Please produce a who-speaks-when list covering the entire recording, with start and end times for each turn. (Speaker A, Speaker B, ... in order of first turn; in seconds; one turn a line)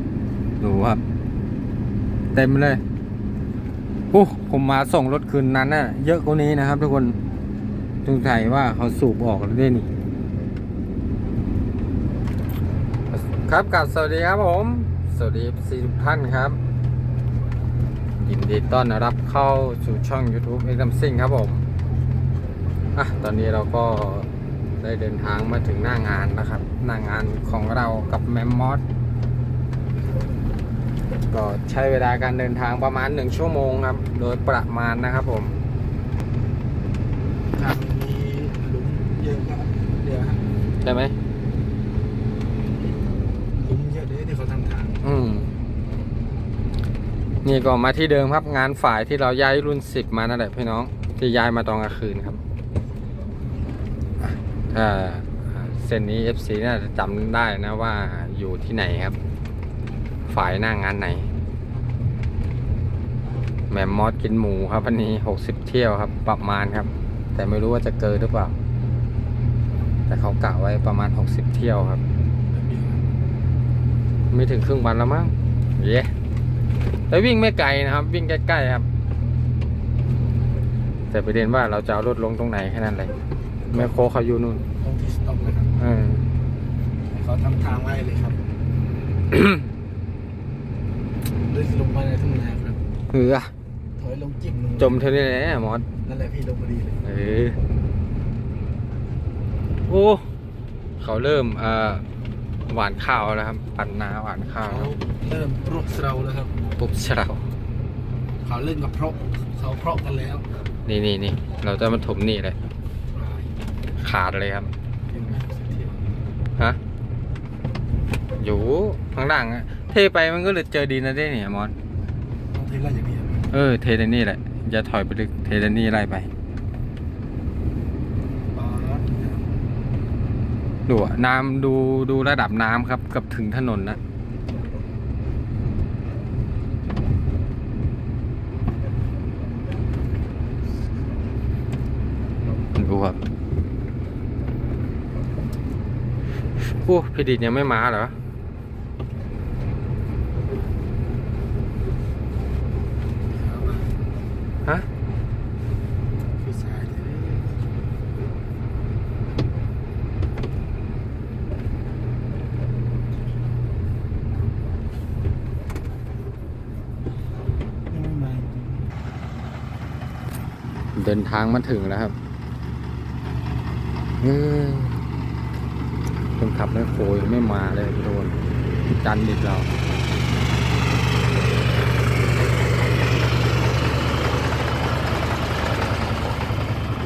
Speaker A: 0.6-1.0
Speaker A: 2.3-2.8
Speaker A: 4.1-7.2
Speaker A: 8.0-9.9
Speaker A: 13.1-16.6
Speaker A: 18.2-21.6
Speaker A: 22.9-24.3
Speaker A: 24.8-28.8
Speaker A: 31.3-35.5
Speaker B: 37.5-40.4
Speaker A: 40.8-41.1
Speaker B: 43.5-45.0
Speaker A: 45.0-45.5
Speaker A: 47.4-52.4
Speaker A: 54.3-59.2
Speaker A: 60.3-61.3
Speaker A: 63.7-68.5
Speaker A: 70.1-72.0
Speaker B: 72.5-73.0
Speaker A: 74.3-76.1
Speaker A: 77.1-78.8
Speaker A: 81.1-83.1
Speaker A: 83.7-84.6
Speaker B: 84.8-85.8
Speaker A: 85.8-86.2
Speaker B: 87.1-88.4
Speaker A: 89.3-89.6
Speaker B: 91.4-92.8
Speaker A: 93.1-93.5
Speaker B: 94.0-95.1
Speaker A: 94.8-95.9
Speaker B: 96.0-97.0
Speaker A: 97.0-97.6
Speaker A: 99.9-100.2
Speaker A: 101.0-102.0
Speaker A: 102.7-104.9
Speaker B: 104.7-106.5
Speaker A: 106.8-107.4
Speaker B: 108.4-110.5
Speaker A: 110.8-112.6
Speaker B: 113.1-113.5
Speaker A: 114.0-114.7
Speaker B: 115.1-116.0
Speaker A: 118.4-121.7
Speaker B: 122.5-123.5
Speaker A: 123.5-126.3
Speaker B: 128.5-129.3
Speaker A: 130.9-134.0
Speaker A: 142.8-143.2
Speaker A: 146.6-148.1
Speaker B: 153.3-153.9
Speaker B: 156.3-157.6
Speaker B: 167.9-168.8
Speaker A: 170.9-172.1
Speaker A: 174.2-174.9
Speaker A: 176.4-179.7